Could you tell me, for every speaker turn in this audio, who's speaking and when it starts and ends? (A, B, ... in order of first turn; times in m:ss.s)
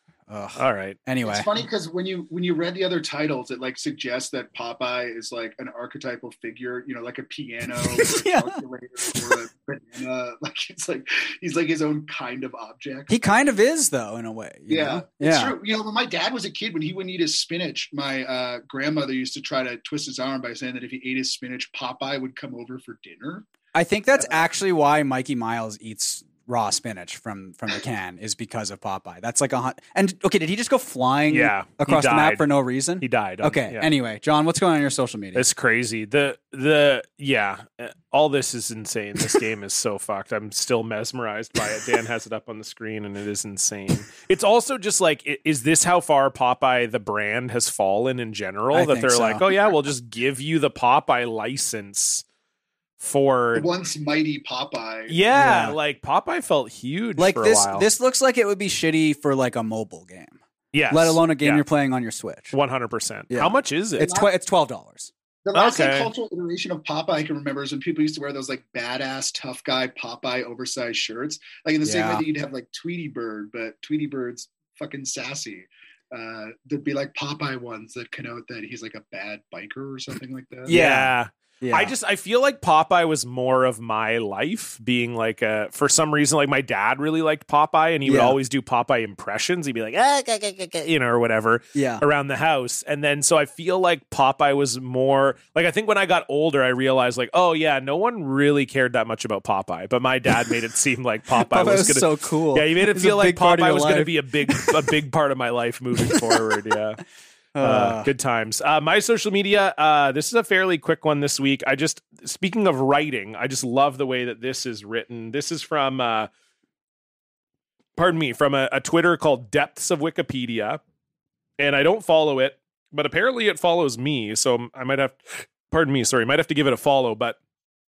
0:00.3-0:01.5 A
0:00.6-0:01.0 B
0:01.2-0:13.1 C
0:07.8-0:09.4 A
0:13.1-0:15.5 A
0:14.7-0:23.5 C
0:23.7-0:35.4 A
0:31.3-0:32.5 B
0:33.0-0:33.9 B
0:35.3-0:52.2 B
0:48.7-0:49.5 A
0:53.0-0:53.7 B
0:53.5-0:55.2 C
0:55.1-0:57.9 B
0:55.3-0:55.8 A
0:57.2-1:00.4 A
1:00.7-1:01.6 B
1:00.9-1:02.5 A
1:02.5-1:04.1 B
1:03.3-1:05.1 A
1:04.0-1:04.3 C
1:05.4-1:20.7 C
1:05.5-1:06.1 B
1:11.8-1:12.2 A
1:20.6-1:21.9 A
1:20.7-1:47.0 B
1:28.0-1:28.4 A
1:31.7-1:32.0 A
1:41.4-1:44.8 A
1:46.0-1:46.4 A
1:47.5-1:48.1 A
1:47.6-1:56.3 B
1:58.0-2:00.8 B
2:01.6-2:07.4 B